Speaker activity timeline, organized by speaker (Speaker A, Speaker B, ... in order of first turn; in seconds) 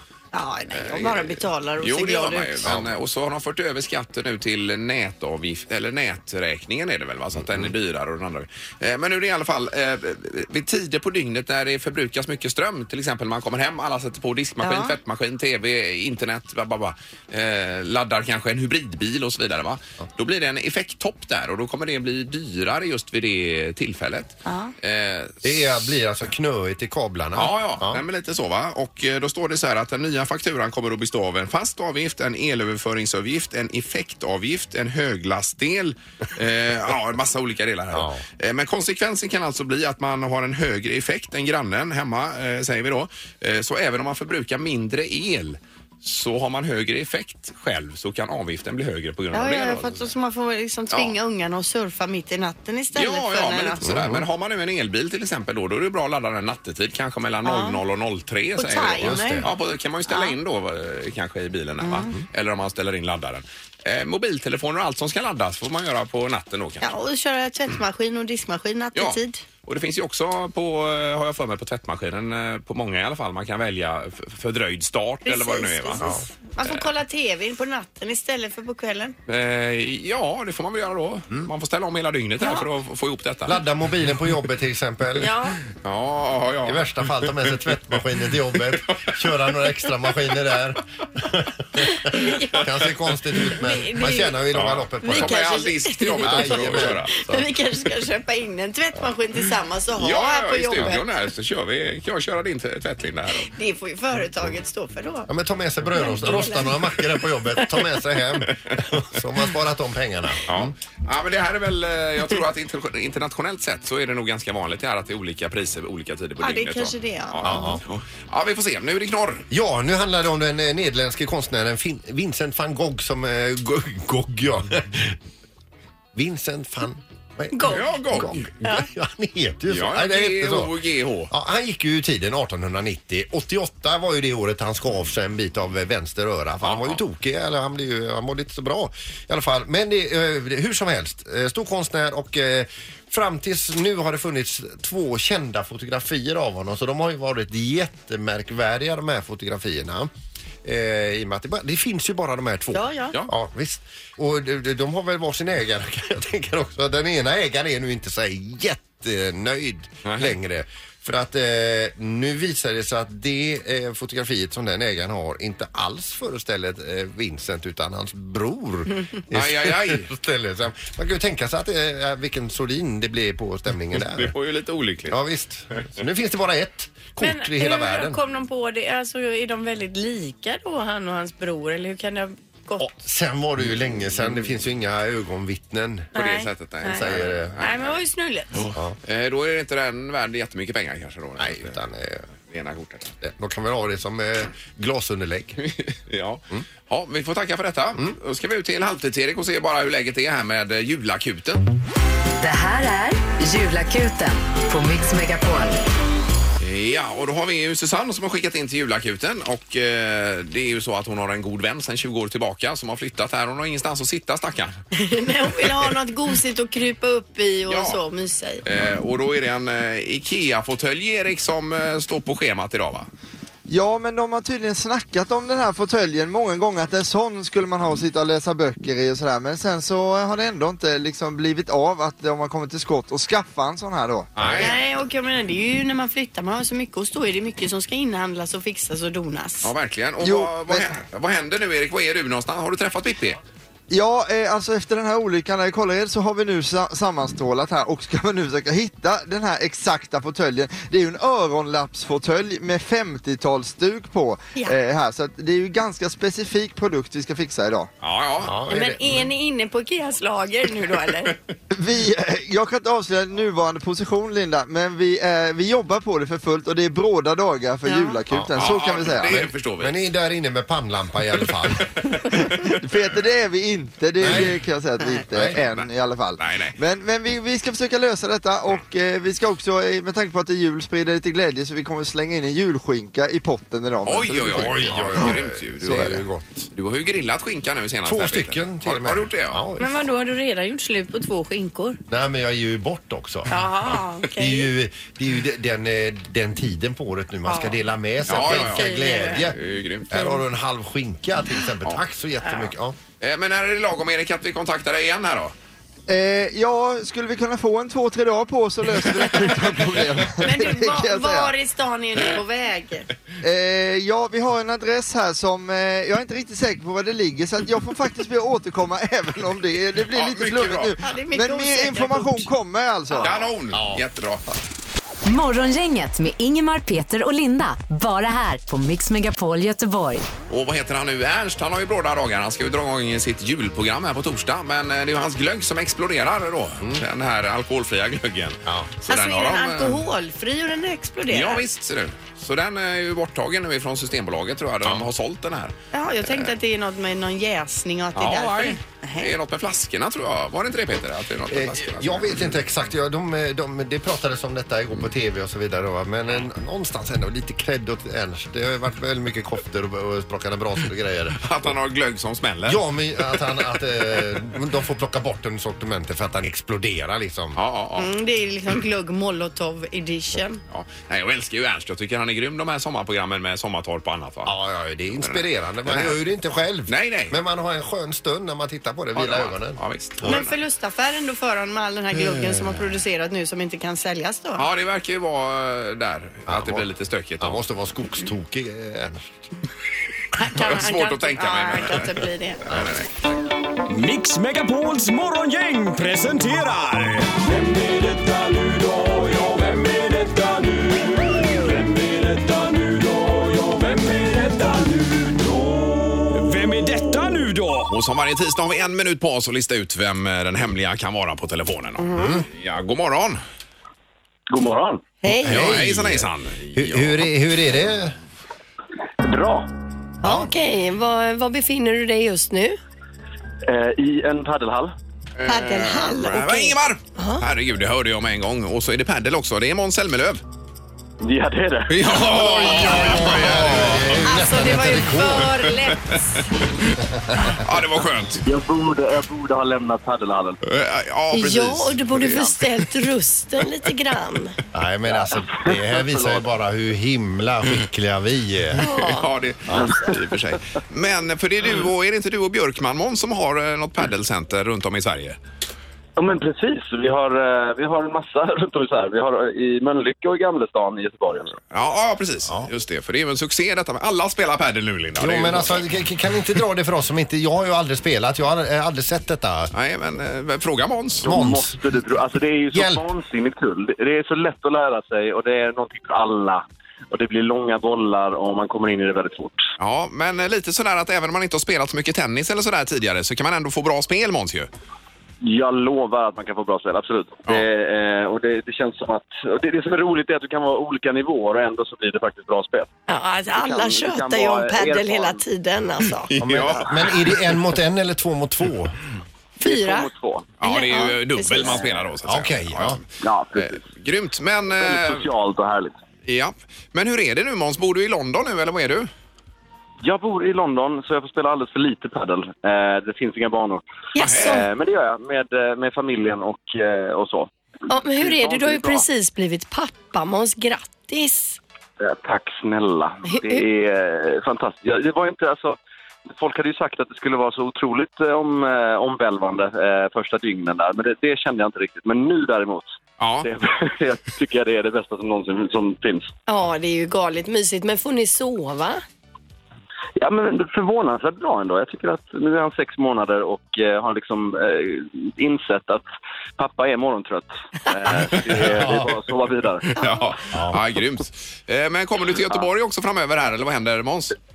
Speaker A: 0.3-2.7, 14.6-14.9, 24.4-24.7, 49.3-53.9, 57.4-57.8, 58.5-59.5, 60.1-60.3, 61.8-62.1, 66.8-69.4, 75.2-79.1, 82.4-82.7, 85.2-85.6, 91.8-92.6, 93.6-94.4, 95.0-101.1, 103.4-105.3, 105.9-106.9, 116.4-117.8, 127.5-127.8, 152.7-153.2, 177.2-182.9, 186.1-188.6, 214.9-218.6, 234.6-239.7, 258.7-261.3, 267.9-268.2, 289.8-292.0, 293.5-294.7, 297.4-297.8, 298.3-299.5, 300.1-300.4, 310.4-313.1, 321.0-322.5, 339.1-341.6, 345.9-349.3, 368.0-370.6, 380.2-384.6, 390.3-392.6, 412.0-412.4, 415.2-415.6, 420.2-422.8, 425.4-427.4, 432.2-433.1, 434.2-436.4, 441.3-444.5, 448.8-449.2, 493.1-496.3, 499.6-500.1, 500.6-501.8, 514.1-514.6, 517.9-521.6, 523.3-523.6, 536.5-539.0
Speaker B: 0.7-25.8, 27.3-50.1, 52.9-66.9, 68.9-76.9, 79.3-83.6, 85.8-87.8, 88.7-89.2, 94.5-97.1, 100.0-103.5, 110.5-119.5, 127.7-128.5, 129.7-131.3, 136.6-137.0, 160.0-160.3, 169.3-170.1, 173.9-175.2, 186.1-188.0, 188.5-191.8, 192.5-193.1, 195.6-201.7, 206.6-214.7, 217.7-218.0, 218.6-223.1, 234.3-234.7, 239.6-243.4, 258.0-258.6, 268.5-270.0, 271.7-272.8, 275.6-276.8, 284.0-289.6, 298.3-300.1, 303.2-305.5, 320.1-320.9, 323.2-324.4, 330.5-340.0, 341.3-345.7, 346.2-346.5, 348.1-352.5, 361.4-364.2, 367.6-368.1, 370.7-374.5, 375.2-376.2, 376.9-377.3, 379.1-380.6, 384.6-387.6, 390.5-393.3, 407.9-413.4, 415.4-417.3, 425.4-430.4, 431.9-434.3, 437.5-438.4, 440.6-442.8, 448.8-455.4, 461.7-465.9, 469.7-471.4, 479.8-484.7, 496.3-497.3, 500.6-505.3, 506.2-509.1, 514.2-514.6, 533.2-533.5, 548.5-548.8, 549.9-554.3
Speaker C: 2.6-3.0, 7.3-7.7, 25.4-28.0, 37.9-38.2, 53.8-54.2, 59.0-59.5, 83.5-85.3, 86.6-95.5, 96.2-97.4, 105.3-110.7, 117.4-117.8, 119.5-125.2, 126.1-130.7, 131.3-150.1, 150.6-174.3, 175.1-178.2, 182.8-186.1, 186.9-187.6, 191.4-192.3, 193.2-195.6, 234.4-234.7, 258.4-259.3, 269.2-271.9, 274.2-274.6, 275.3-275.6, 284.5-286.7, 288.0-289.9, 292.1-293.5, 294.4-299.6, 300.1-303.0, 323.7-324.0, 338.6-338.9, 351.5-361.5, 362.6-367.6, 374.4-380.4, 386.5-386.9, 387.4-389.3, 412.1-412.4, 415.3-418.1, 420.2-420.5, 432.3-435.6, 437.1-437.6, 444.7-448.8, 465.2-469.7, 471.2-471.9, 472.7-473.0, 496.4-499.0, 502.2-503.0, 548.6-549.1, 550.5-550.8
Speaker D: 202.4-205.8, 325.2-330.3
Speaker E: 223.7-234.3, 240.2-240.8, 243.9-257.9, 261.7-269.4, 272.6-285.2, 306.1-311.5, 313.4-323.3
Speaker F: 393.9-407.9
Speaker G: 414.5-415.1, 419.2-419.7, 423.6-424.9, 431.2-432.0, 438.4-440.6, 445.1-446.4, 456.1-461.6, 471.2-479.6, 485.4-492.9, 493.5-495.4, 499.6-500.5, 501.7-502.0, 503.2-503.8, 504.8-505.9, 510.0-517.5, 518.1-519.0, 522.0-525.8, 526.3-532.9, 533.4-536.3, 540.2-546.0, 546.6-550.0